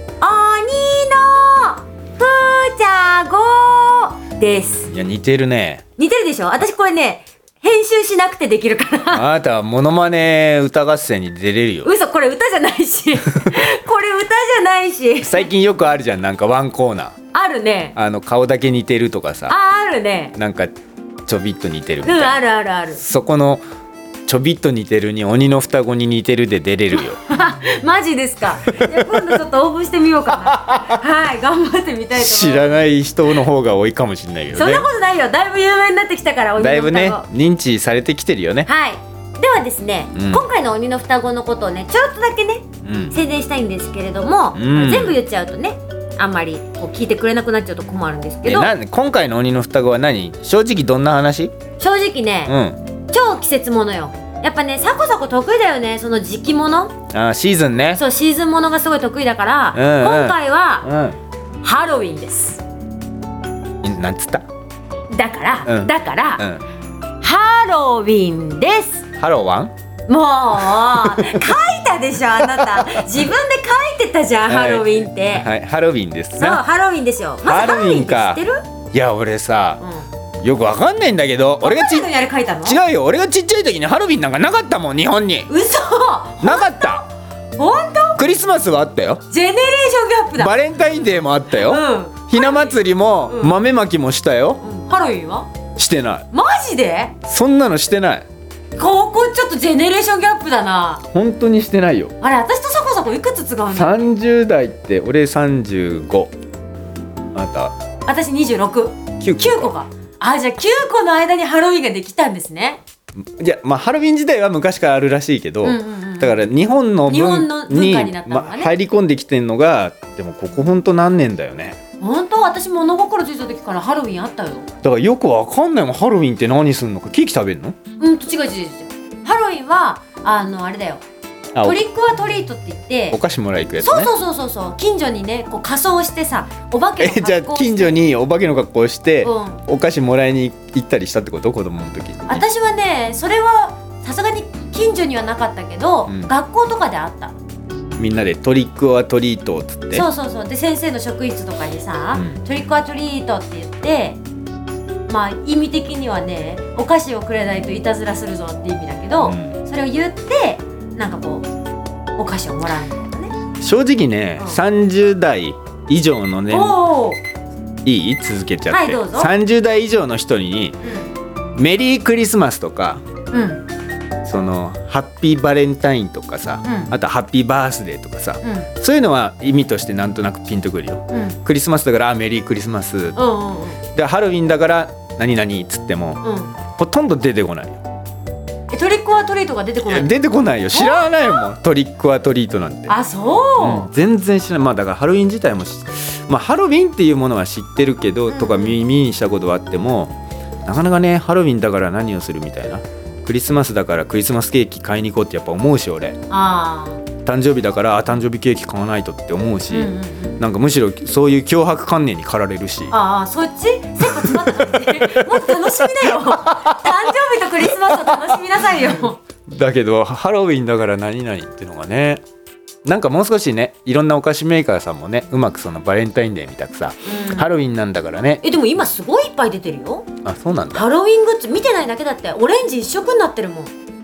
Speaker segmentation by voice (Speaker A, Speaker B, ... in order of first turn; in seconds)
Speaker A: 0.2-4.9, 6.0-9.2, 11.8-15.5, 17.3-17.9, 19.5-20.3, 22.0-23.0, 26.9-32.7, 34.5-37.2, 38.6-48.7, 51.8-52.5, 53.1-56.9, 57.9-60.9, 61.6-62.6, 65.1-66.5, 67.2-69.0, 70.1-75.5, 76.4-78.6, 79.8-80.0, 81.6-82.8, 85.5-88.2, 89.3-90.5, 91.5-93.5, 94.6-95.5, 96.3-97.1, 98.8-101.0, 102.2-104.1, 108.0-112.8, 115.6-116.4, 117.1-118.7, 122.0-124.7, 128.0-131.0, 131.6-133.2, 133.8-138.0, 139.2-139.6, 142.3-147.3, 149.9-154.2, 155.1-161.4, 162.2-163.4, 166.5-167.2, 168.7-169.3, 170.8-171.1, 173.3-173.6, 176.6-176.9, 178.4-178.7, 181.1-181.4, 183.1-183.8, 186.2-186.5, 188.7-190.1, 190.7-191.4, 192.9-193.9, 198.3-198.8, 206.3-207.0, 209.7-210.4, 212.9-219.2, 227.0-227.5, 228.4-230.1, 230.7-233.7
Speaker B: 4.9-5.8, 9.1-11.9, 15.2-17.1, 17.9-19.5, 20.3-20.7, 21.3-22.4, 22.9-23.6, 24.2-27.2, 28.8-29.2, 30.4-31.0, 32.1-34.9, 36.6-38.7, 40.1-40.4, 42.8-43.1, 44.5-45.2, 48.4-51.5, 52.5-52.8, 57.1-58.0, 59.7-61.2, 63.8-64.4, 65.7-66.6, 69.2-69.7, 70.8-71.4, 72.4-73.0, 74.5-76.6, 77.4-78.4, 78.9-79.8, 80.4-82.1, 82.6-85.5, 86.4-87.0, 88.2-89.2, 90.3-94.6, 95.8-96.3, 97.2-98.2, 101.1-102.1, 103.7-106.3, 107.3-107.7, 109.2-109.7, 113.4-121.8, 124.8-127.8, 131.5-131.8, 133.1-134.1, 137.0-142.4, 146.1-146.3, 148.0-150.1, 159.2-159.5, 163.6-166.8, 167.8-170.8, 171.6-173.0, 174.2-183.2, 183.9-187.8, 189.8-193.0, 193.6-200.1, 200.6-206.2, 207.2-212.9, 214.0-217.0, 217.7-218.4, 219.5-222.2, 222.8-228.4, 230.2-230.8